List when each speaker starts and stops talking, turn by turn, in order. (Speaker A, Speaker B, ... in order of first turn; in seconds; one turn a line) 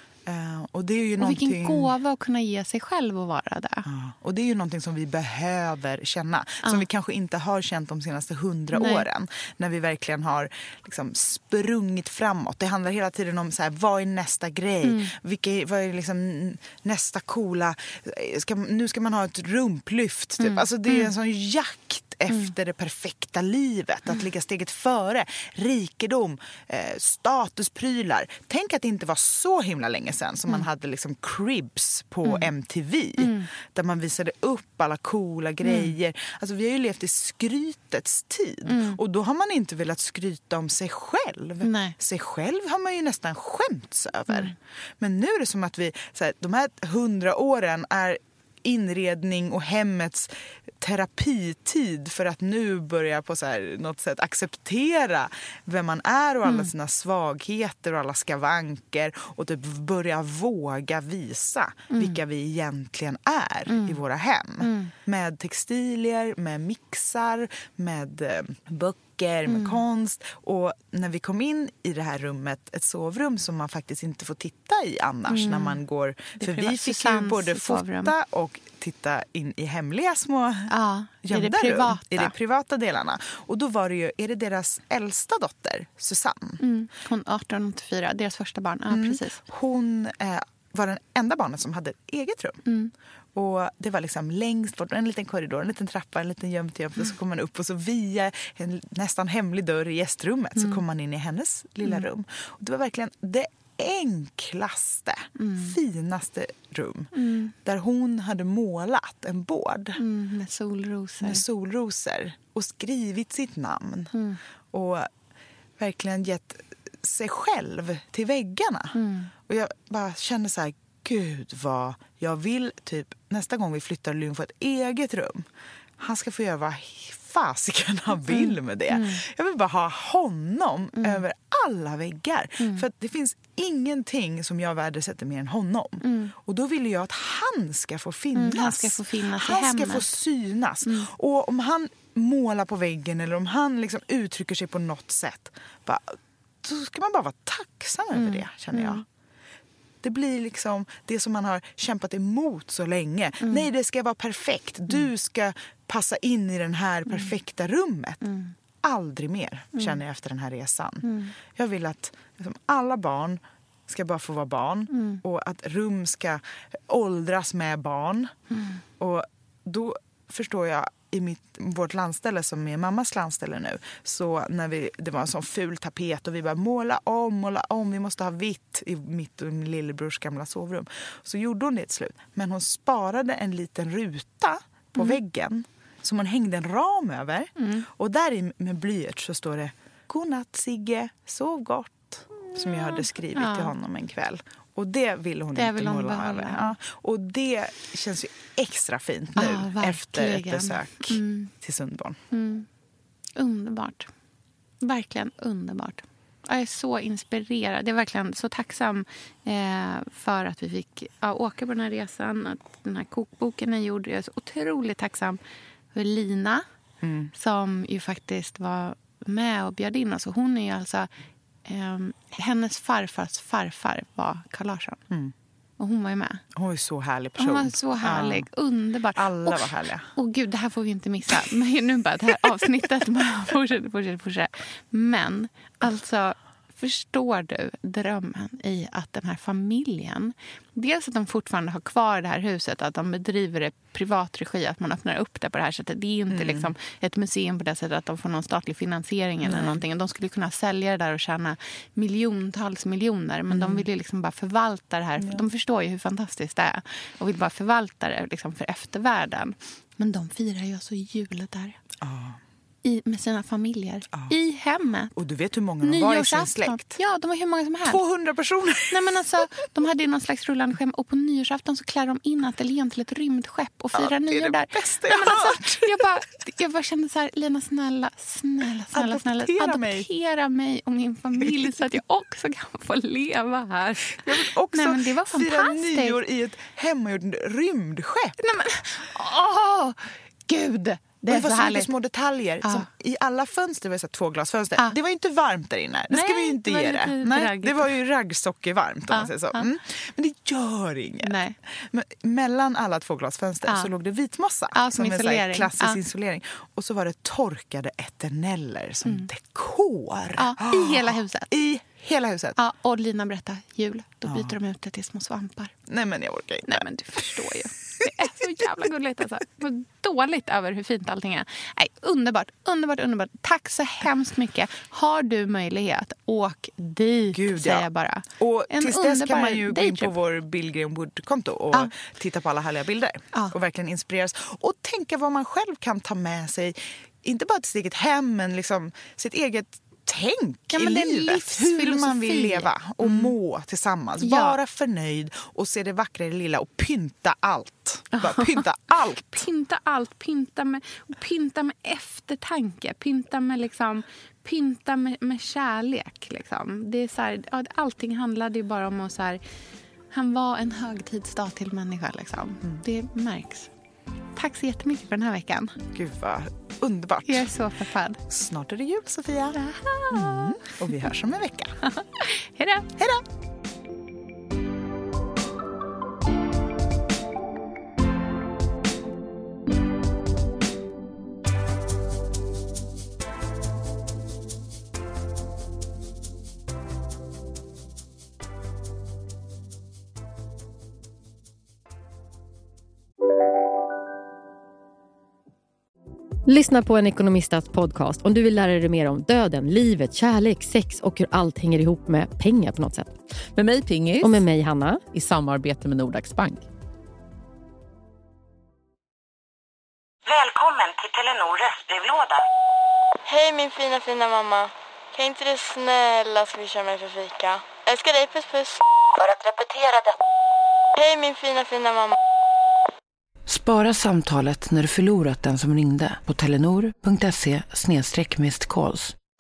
Speaker A: 0.3-1.9
Speaker B: 1.2-3.9
Speaker A: 3.9-80.7
Speaker B: 8.7-9.1
Speaker B: 14.8-15.1
Speaker B: 20.4-21.1
Speaker B: 32.2-32.5
Speaker B: 33.2-33.5
Speaker B: 35.6-35.9
Speaker B: 38.7-39.0
Speaker B: 41.6-42.0
Speaker B: 44.3-44.5
Speaker B: 56.4-56.7
Speaker B: 61.9-62.2
Speaker B: 63.7-64.0
Speaker B: 64.6-64.9
Speaker B: 69.5-69.8
Speaker B: 75.3-75.8
Speaker B: 76.4-78.1
Speaker B: 80.7-82.3
Speaker A: 81.2-86.6
Speaker B: 86.6-89.4
Speaker A: 88.9-92.6
Speaker B: 92.7-92.9
Speaker A: 93.3-110.0
Speaker B: 105.4-105.8
Speaker B: 107.1-107.5
Speaker B: 110.0-111.4
Speaker A: 111.2-114.1
Speaker B: 114.1-114.4
Speaker A: 114.7-115.1
Speaker A: 115.8-125.5
Speaker B: 118.9-119.3
Speaker A: 126.0-149.0
Speaker B: 128.3-129.2
Speaker B: 130.9-131.2
Speaker B: 132.6-132.8
Speaker B: 136.0-136.3
Speaker B: 138.3-140.2
Speaker B: 148.2-149.0
Speaker A: 150.0-158.2
Speaker B: 153.4-153.7
Speaker B: 158.2-158.5
Speaker A: 158.8-168.3
Speaker B: 161.0-161.3
Speaker B: 164.9-165.2
Speaker B: 168.5-168.8
Speaker A: 169.0-202.2
Speaker B: 187.6-187.9
Speaker B: 193.3-193.7
Speaker B: 195.6-196.7
Speaker B: 199.4-201.5
Speaker B: 202.3-202.7
Speaker B: 203.4-204.1
Speaker B: 204.8-215.4
Speaker B: 215.9-216.7
Speaker A: 217.0-217.3
Speaker B: 217.3-221.1
Speaker B: 221.7-225.0
Speaker B: 225.8-226.4
Speaker A: 226.6-228.5
Speaker B: 227.4-261.8
Speaker A: 229.2-230.1
Speaker A: 246.3-246.7
Speaker A: 249.4-249.8
Speaker A: 253.5-253.9
Speaker A: 255.2-255.4
Speaker A: 262.0-262.4
Speaker B: 262.8-265.1
Speaker A: 265.1-267.0
Speaker B: 265.8-268.0
Speaker A: 267.8-269.4
Speaker B: 268.9-286.2
Speaker A: 273.9-276.1
Speaker A: 278.9-280.1
Speaker A: 281.4-281.7
Speaker A: 284.1-288.4
Speaker B: 288.4-291.9
Speaker A: 291.3-312.6
Speaker B: 296.1-297.9
Speaker B: 299.1-299.7
Speaker B: 301.2-301.6
Speaker B: 303.7-303.9
Speaker B: 304.7-306.0
Speaker B: 310.4-311.5
Speaker B: 312.6-315.7
Speaker A: 314.3-314.6
Speaker A: 315.9-317.4
Speaker B: 316.7-330.1
Speaker A: 327.3-349.5
Speaker B: 340.7-343.3
Speaker B: 344.2-344.6
Speaker B: 348.1-348.7
Speaker B: 349.3-359.4
Speaker B: 360.1-363.7
Speaker B: 364.4-365.8
Speaker A: 365.9-367.5
Speaker B: 367.3-368.2
Speaker A: 368.3-369.6
Speaker B: 369.6-371.1
Speaker A: 370.1-371.8
Speaker B: 371.8-372.9
Speaker A: 373.0-373.2
Speaker C: 396.5-403.2
Speaker D: 403.6-404.4
Speaker C: 404.2-405.0
Speaker D: 405.1-406.6
Speaker E: 410.3-412.4
Speaker F: 413.2-418.8
Speaker E: 419.2-420.1
Speaker F: 421.0-422.2
Speaker G: 423.5-429.2